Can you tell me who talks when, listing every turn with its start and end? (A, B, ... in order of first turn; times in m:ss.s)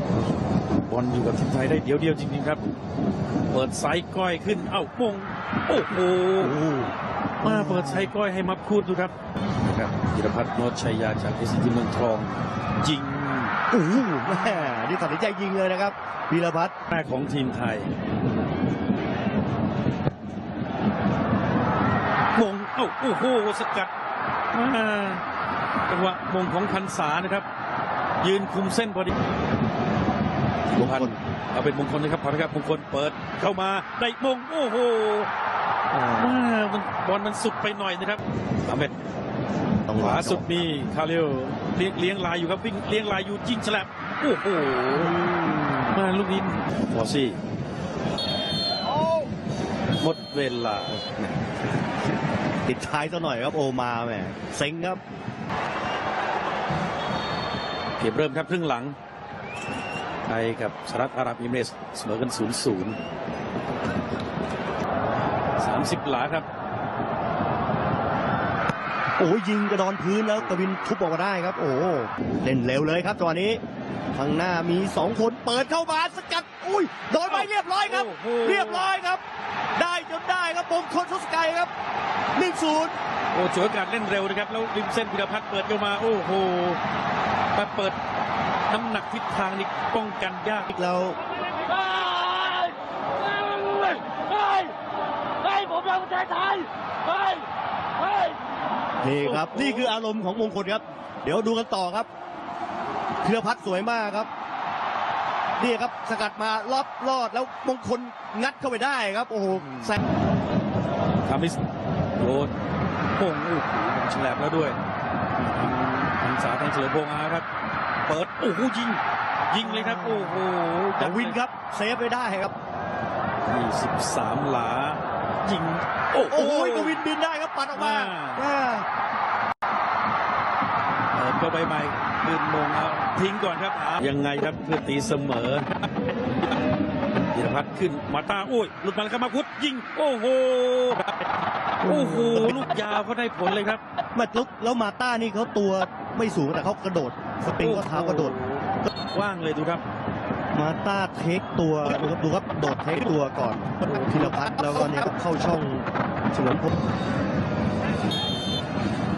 0:00.7-0:02.6 A
0:03.5-0:06.5 A
0:06.4-0:08.1 B
0:07.4-0:13.6 A
0:13.7-0:16.7 B
0:16.9-0:17.9 A
0:22.3-0:23.9 A
0:24.5-0:25.2 A
0:25.9-0:27.5 A
0:28.2-0:29.1 A
0:30.7-0:35.3 A
0:30.8-0:31.1 B
0:35.9-0:36.4 B
0:36.1-0:38.9 A
0:39.9-0:40.5 B
0:40.0-0:45.1 A
0:44.9-0:45.9 B
0:45.9-0:47.4 A
0:50.0-0:51.2 A
0:52.6-0:55.0 B
0:58.0-0:59.0 A
1:00.2-1:03.0 A
1:05.6-1:06.5 A
1:09.2-1:13.6 B
1:14.1-1:19.2 B
1:17.2-1:18.8 A
1:19.8-1:21.7 B
1:22.3-1:22.9 B
1:23.3-1:26.8 A
1:27.5-1:28.0 A
1:28.7-1:30.7 A
1:30.7-1:31.2 B
1:31.6-1:32.7 C
1:33.3-1:34.7 C
1:34.2-1:34.5 A
1:35.4-1:36.6 C
1:38.0-1:38.3 C
1:39.0-1:42.1 B
1:39.2-1:39.9 A
1:43.2-1:44.3 B
1:45.6-1:50.0 B
1:49.5-1:50.0 A
1:51.2-1:51.6 A
1:52.2-1:52.5 A
1:53.1-1:54.8 A
1:55.4-1:57.4 A
1:58.1-2:01.4 A
1:59.6-2:00.4 B
2:01.0-2:02.5 B
2:03.5-2:07.0 A
2:06.3-2:08.8 B
2:07.7-2:08.5 A
2:11.1-2:15.8 A
2:17.3-2:21.1 A
2:21.8-2:22.7 B
2:21.8-2:23.8 A
2:24.1-2:28.4 B
2:27.6-2:29.8 A
2:30.5-2:36.7 B
2:33.8-2:34.9 A